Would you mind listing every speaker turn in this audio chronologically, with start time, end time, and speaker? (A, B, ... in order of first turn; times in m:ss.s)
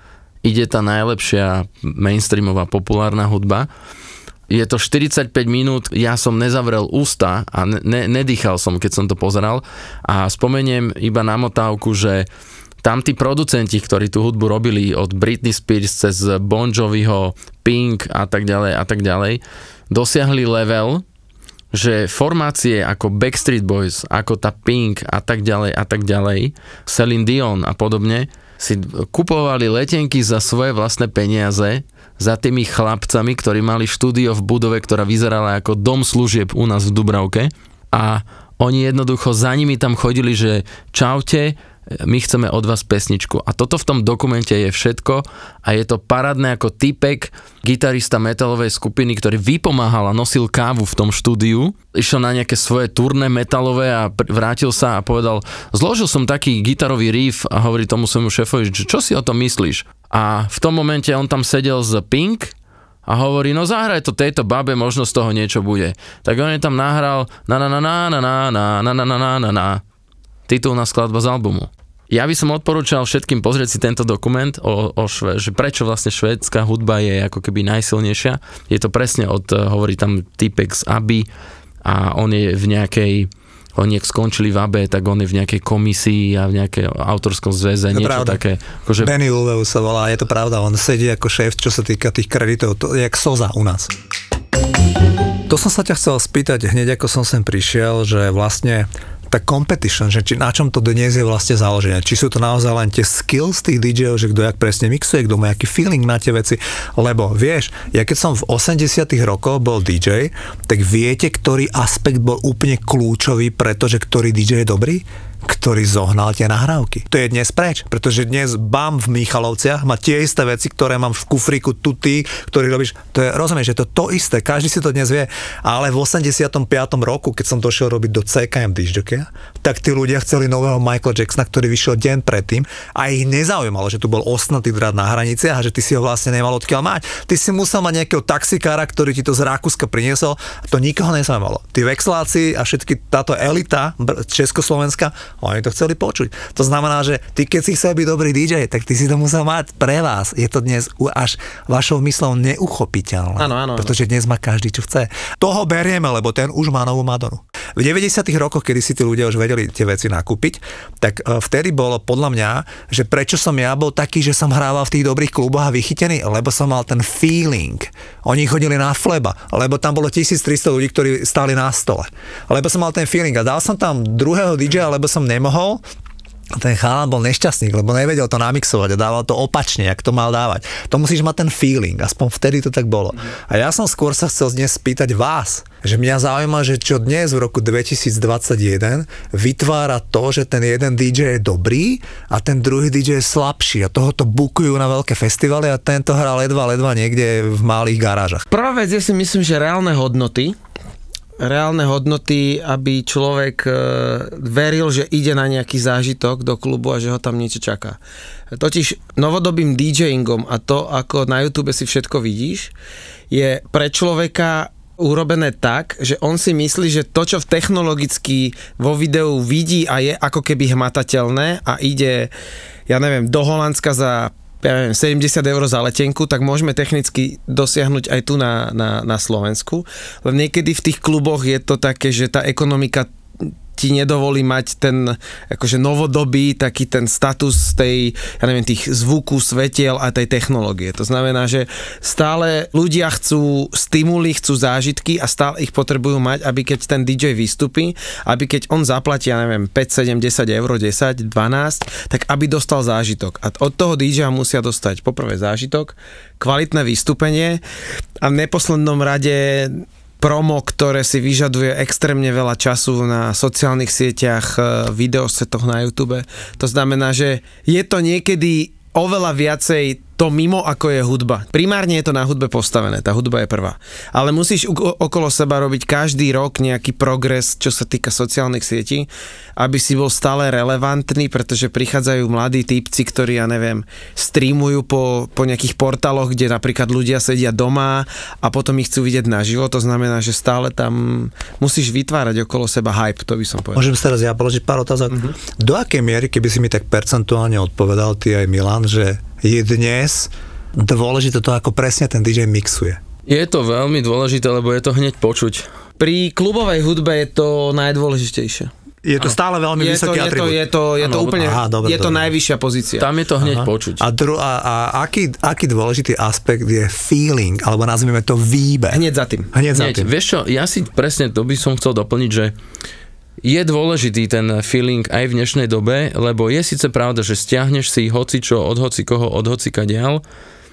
0:00.4-0:03.7 A
0:04.5-0:12.2 A
0:12.8-0:21.0 A
0:21.7-1:02.5 A
1:03.0-1:09.8 A
1:10.5-1:21.2 A
1:21.8-1:29.1 A
1:27.9-1:28.4 B
1:29.0-1:33.9 B
1:35.5-2:55.8 B
2:33.4-2:33.9 C
2:56.5-3:18.4 B
3:18.5-3:20.6 C
3:21.4-3:28.0 C
3:28.5-3:32.7 C
3:33.3-3:42.3 C
3:42.9-3:53.1 C
3:53.8-4:17.6 C
4:18.2-4:53.9 C
4:53.7-5:03.0 B
5:03.3-5:05.7 A
5:06.0-5:08.7 C
5:09.0-5:10.6 B
5:09.8-5:13.0 C
5:11.1-5:12.3 B
5:13.0-5:14.0 A
5:13.4-5:20.1 B
5:18.9-5:19.5 C
5:19.7-5:22.5 A
5:23.4-5:30.2 A